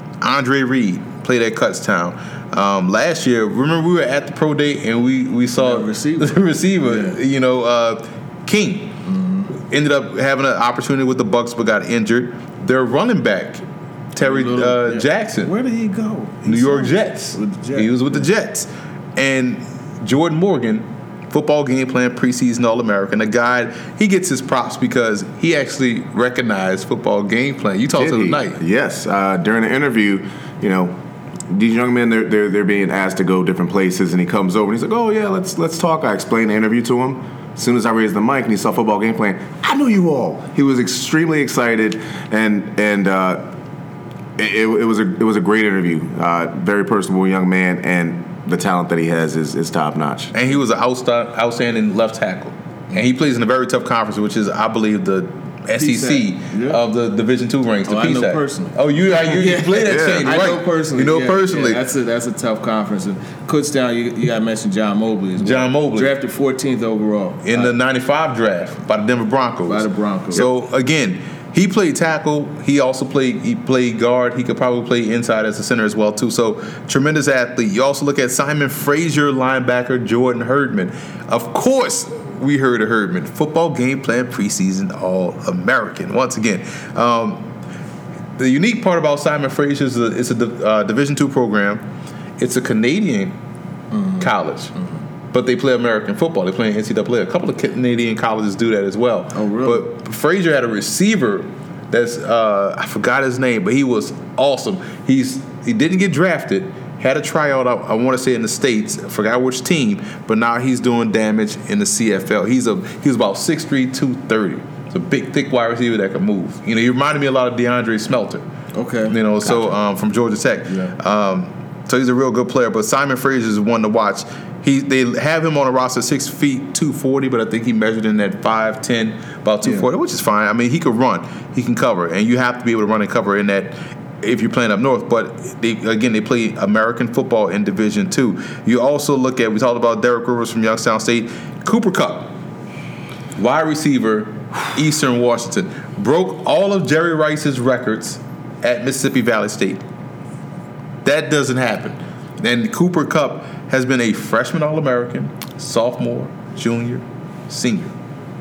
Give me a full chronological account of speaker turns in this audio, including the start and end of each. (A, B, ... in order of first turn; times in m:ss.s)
0:00.2-0:09.0 A
0:05.6-0:07.2 B
0:09.0-0:09.5 B
0:09.6-0:13.6 A
0:14.1-0:15.5 A
0:14.2-0:18.2 B
0:16.4-0:28.6 A
0:28.0-0:31.0 C
0:31.5-0:43.5 C
0:44.4-0:50.3 C
0:50.3-1:01.8 A
0:55.8-0:56.8 B
0:57.8-1:07.7 B
0:59.8-1:00.4 C
1:05.4-1:06.1 A
1:07.4-1:27.5 A
1:09.7-1:10.5 B
1:28.4-1:31.8 A
1:32.4-1:33.4 A
1:33.9-1:35.0 B
1:34.2-1:34.7 A
1:35.3-1:58.4 A
1:39.3-1:39.8 B
1:58.7-1:59.2 B
1:59.1-2:22.3 A
2:00.7-2:00.9 B
2:23.4-2:29.8 A
2:31.0-2:37.9 A